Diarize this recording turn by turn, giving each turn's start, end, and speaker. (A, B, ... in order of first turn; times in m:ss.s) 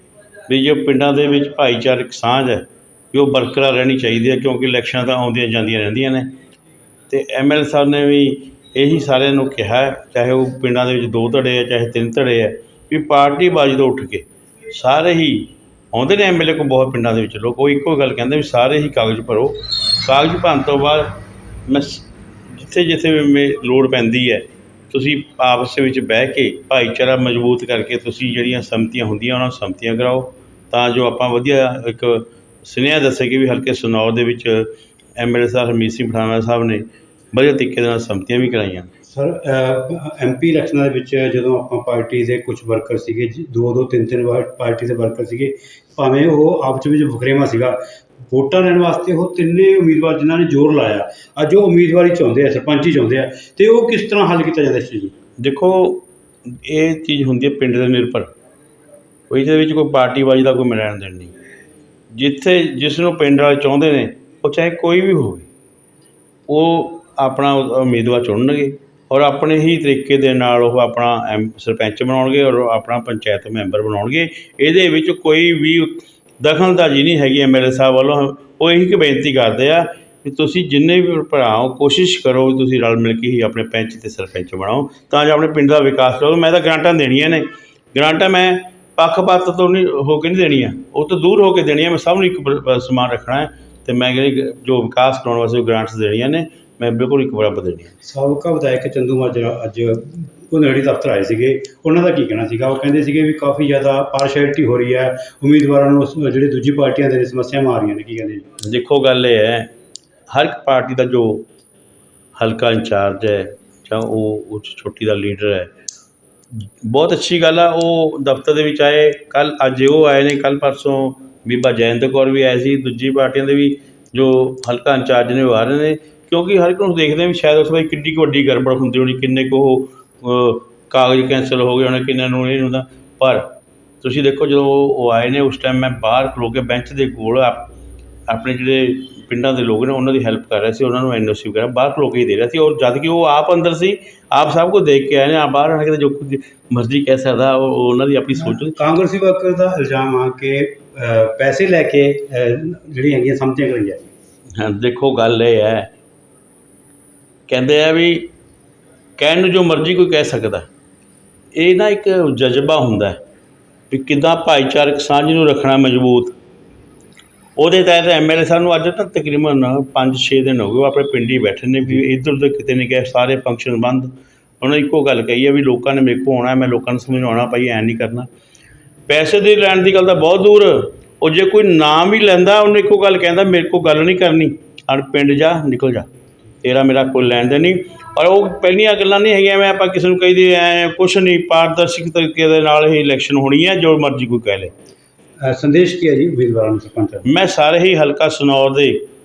0:00.5-0:06.4 A
0:07.1-0:38.9 A
0:39.1-0:47.8 B
0:48.3-0:55.1 B
0:55.4-0:58.3 A
0:59.3-1:01.3 A
1:02.1-1:05.5 A
1:06.5-1:37.9 A
1:38.0-1:48.4 B
1:48.6-1:49.7 A
1:50.3-1:51.5 A
1:52.4-1:55.7 A
1:56.8-2:17.7 A
2:18.3-2:28.8 A
2:28.3-2:34.1 B
2:34.6-2:35.9 A
2:37.5-2:38.3 A
2:39.2-2:40.7 A
2:41.5-2:43.2 A
2:43.9-2:46.3 A
2:47.6-2:58.3 A
2:59.1-3:06.1 A
3:06.6-3:14.7 A
3:15.4-3:17.3 B
3:17.2-3:19.0 A